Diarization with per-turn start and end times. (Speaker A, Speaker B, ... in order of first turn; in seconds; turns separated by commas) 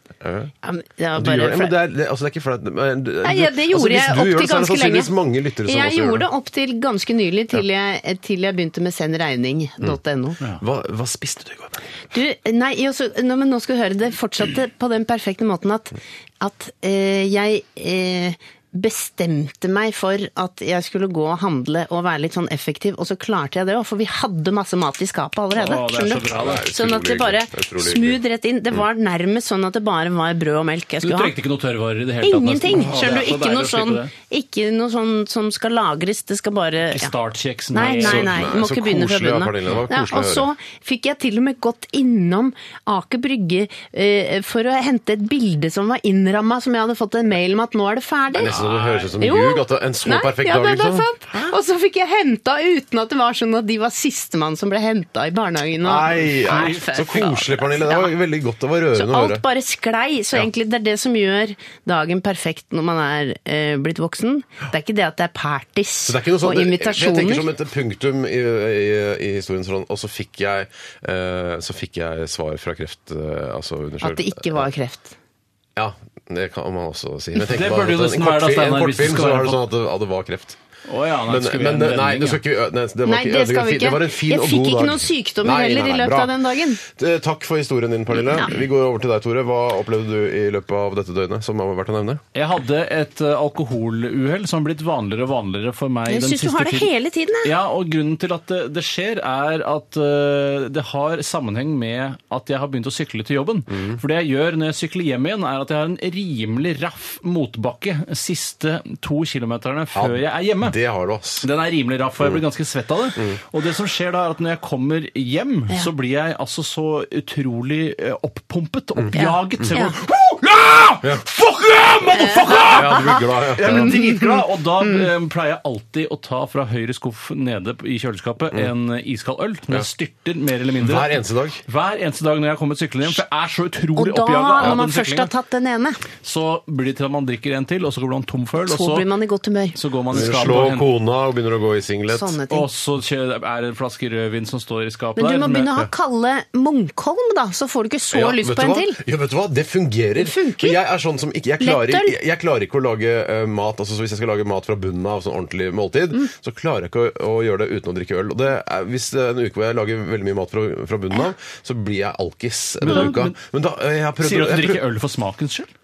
Speaker A: 0.2-0.5, Speaker B: 0.6-1.8, Speaker A: 1.1-6.3, Speaker B: 3.2-5.1, Speaker B: 5.6-10.4, Speaker A: 10.6-11.8, Speaker B: 12.1-31.3, Speaker C: 25.5-26.7, Speaker A: 26.3-28.2, Speaker C: 31.0-34.1, Speaker B: 32.2-37.1, Speaker C: 36.9-38.5, Speaker B: 37.7-48.5, Speaker A: 38.0-40.5, Speaker A: 48.4-51.5, Speaker C: 48.4-49.1, Speaker B: 49.2-58.1, Speaker A: 55.8-59.4, Speaker B: 58.9-67.5, Speaker A: 66.0-74.7, Speaker B: 74.0-75.2, Speaker A: 75.8-80.6, Speaker C: 77.4-79.6, Speaker C: 80.9-82.4, Speaker A: 81.2-92.2, Speaker B: 83.0-86.8, Speaker C: 92.3-96.9, Speaker B: 96.1-97.5, Speaker C: 97.4-110.8, Speaker A: 103.7-104.0, Speaker A: 109.9-111.5, Speaker C: 111.4-135.3, Speaker A: 119.0-119.7, Speaker B: 119.1-119.9, Speaker B: 122.1-125.0, Speaker A: 122.7-124.0, Speaker A: 130.8-131.6, Speaker B: 133.9-136.0, Speaker C: 136.2-139.1, Speaker B: 138.7-139.8, Speaker C: 139.8-140.9, Speaker A: 140.1-142.4, Speaker B: 142.1-142.7, Speaker C: 142.5-145.7, Speaker B: 145.2-149.0, Speaker A: 148.1-164.8, Speaker B: 150.2-150.8, Speaker B: 151.6-152.2, Speaker C: 162.8-163.3, Speaker C: 164.2-165.7